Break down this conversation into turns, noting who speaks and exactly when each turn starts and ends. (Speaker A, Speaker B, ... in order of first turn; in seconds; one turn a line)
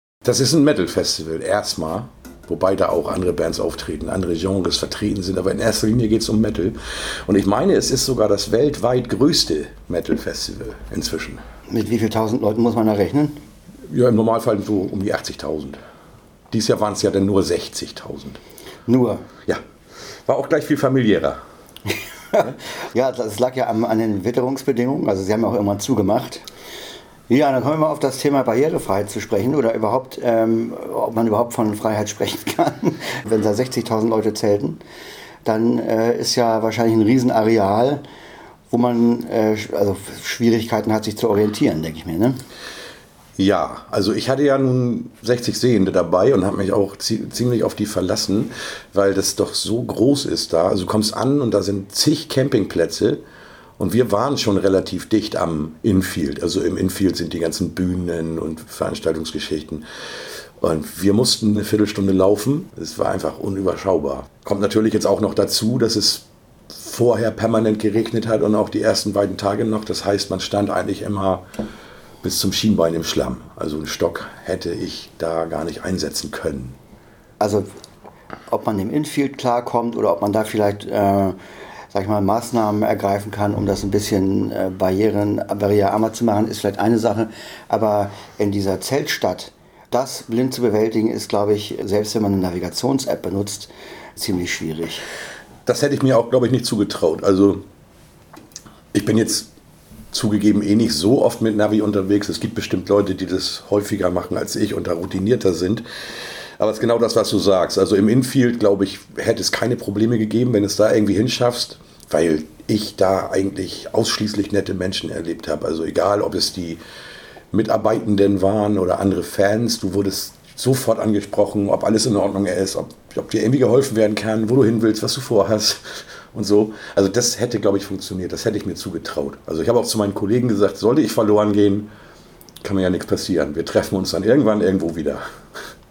Speaker A: 0.2-11.4
Speaker B: 11.7-13.4
Speaker A: 13.9-15.8
Speaker A: 16.5-18.4
Speaker B: 18.9-19.3
Speaker A: 20.2-21.4
Speaker B: 22.3-26.4
Speaker B: 27.3-34.8
Speaker B: 35.4-38.0
Speaker B: 38.7-42.4
Speaker A: 43.4-53.2
Speaker A: 53.8-59.8
Speaker A: 60.6-71.4
Speaker A: 72.2-76.8
Speaker B: 77.4-77.7
Speaker B: 78.5-81.4
Speaker B: 81.9-95.0
Speaker A: 95.7-97.6
Speaker A: 98.9-99.5
Speaker A: 100.1-105.8
Speaker A: 106.6-116.8
Speaker A: 117.5-131.9
Speaker A: 132.6-135.2